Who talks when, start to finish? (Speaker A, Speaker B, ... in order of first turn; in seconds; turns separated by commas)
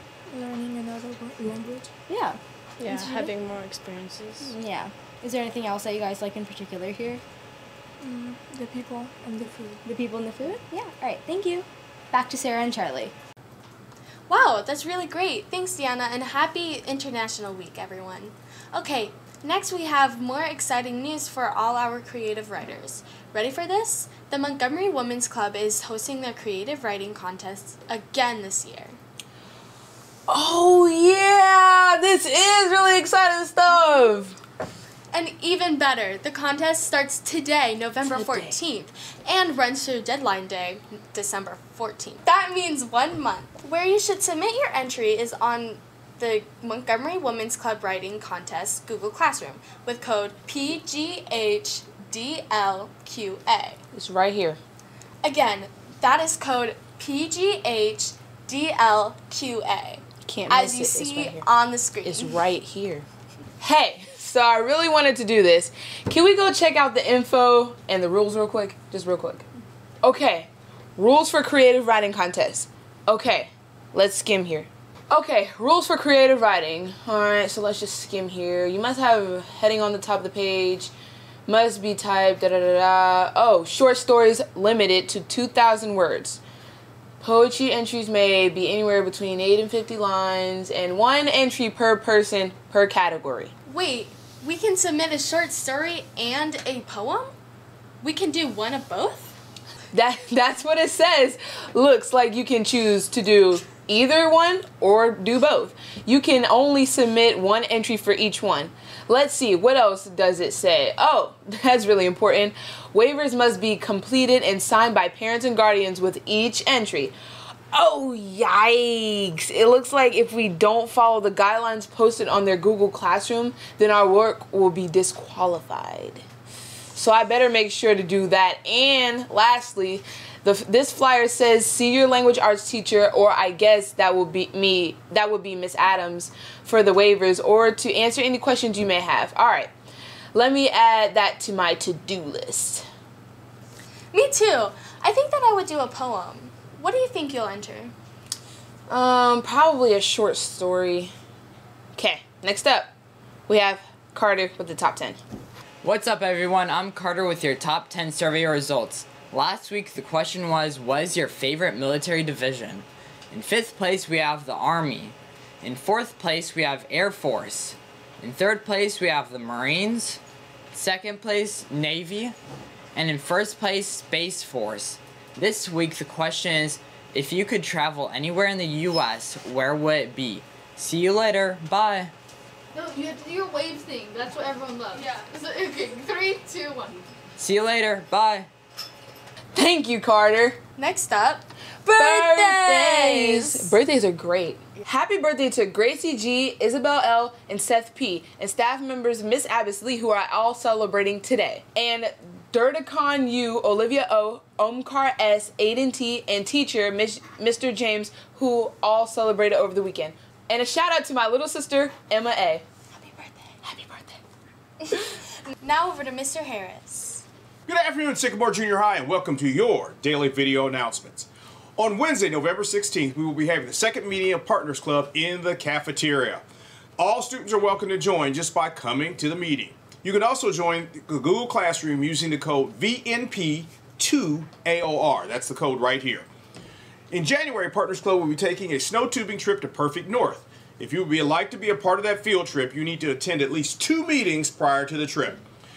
Speaker A: 0.3-1.9, Speaker B: 2.1-3.3, Speaker C: 2.8-4.5, Speaker B: 4.4-7.2, Speaker A: 8.0-9.8, Speaker B: 9.8-13.1, Speaker D: 14.3-29.0, Speaker E: 30.3-34.4, Speaker D: 35.1-53.8, Speaker E: 38.0-38.6, Speaker E: 53.9-54.6, Speaker D: 55.2-62.4, Speaker E: 60.2-61.5, Speaker E: 62.0-63.1, Speaker E: 63.6-69.5, Speaker E: 70.0-80.9, Speaker E: 81.5-86.4, Speaker E: 87.2-93.5, Speaker D: 93.7-97.3, Speaker D: 98.0-99.4, Speaker E: 99.9-117.2, Speaker E: 117.7-126.2, Speaker E: 126.9-139.7, Speaker E: 140.3-142.9, Speaker D: 144.1-147.9, Speaker E: 148.9-151.1, Speaker E: 152.0-152.9, Speaker E: 153.5-155.2, Speaker F: 155.8-170.2, Speaker F: 170.7-172.3, Speaker F: 172.9-182.1, Speaker C: 182.8-187.0, Speaker F: 187.4-188.5, Speaker E: 189.5-190.6, Speaker D: 190.8-193.7, Speaker E: 192.0-212.7, Speaker D: 212.9-213.3, Speaker E: 213.6-214.2, Speaker D: 214.8-217.2, Speaker G: 217.7-226.4, Speaker G: 227.0-236.3, Speaker G: 237.1-245.4